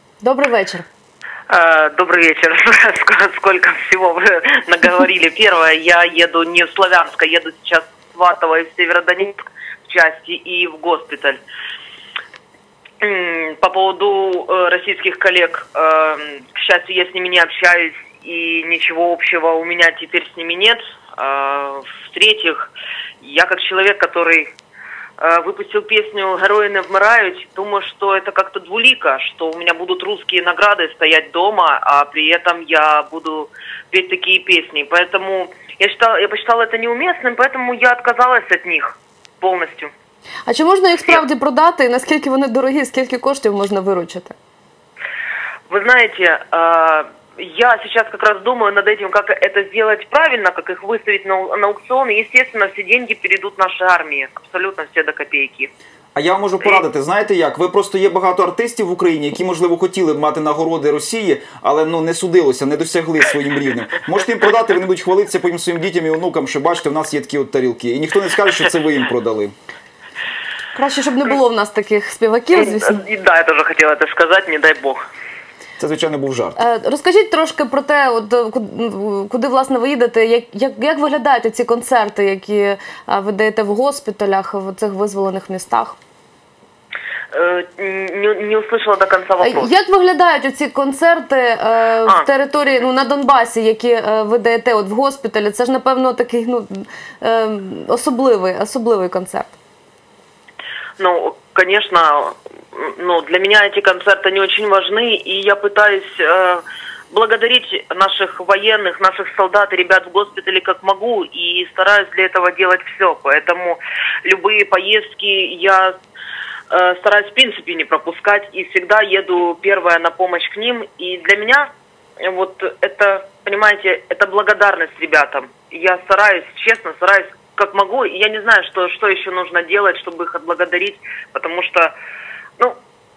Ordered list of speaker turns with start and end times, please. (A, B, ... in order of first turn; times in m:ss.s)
0:00.2-0:00.8 A
0:01.5-0:11.4 B
0:13.0-0:24.5 B
0:25.2-0:39.9 B
0:40.5-0:44.4 A
0:45.7-0:55.7 B
0:56.1-1:09.5 C
1:10.7-1:13.0 A
1:12.5-1:15.0 B
1:15.8-1:16.6 C
1:16.6-1:26.0 A
1:27.3-1:29.7 B
1:29.4-1:39.5 A
1:41.0-1:55.9 B
1:56.7-2:11.9 B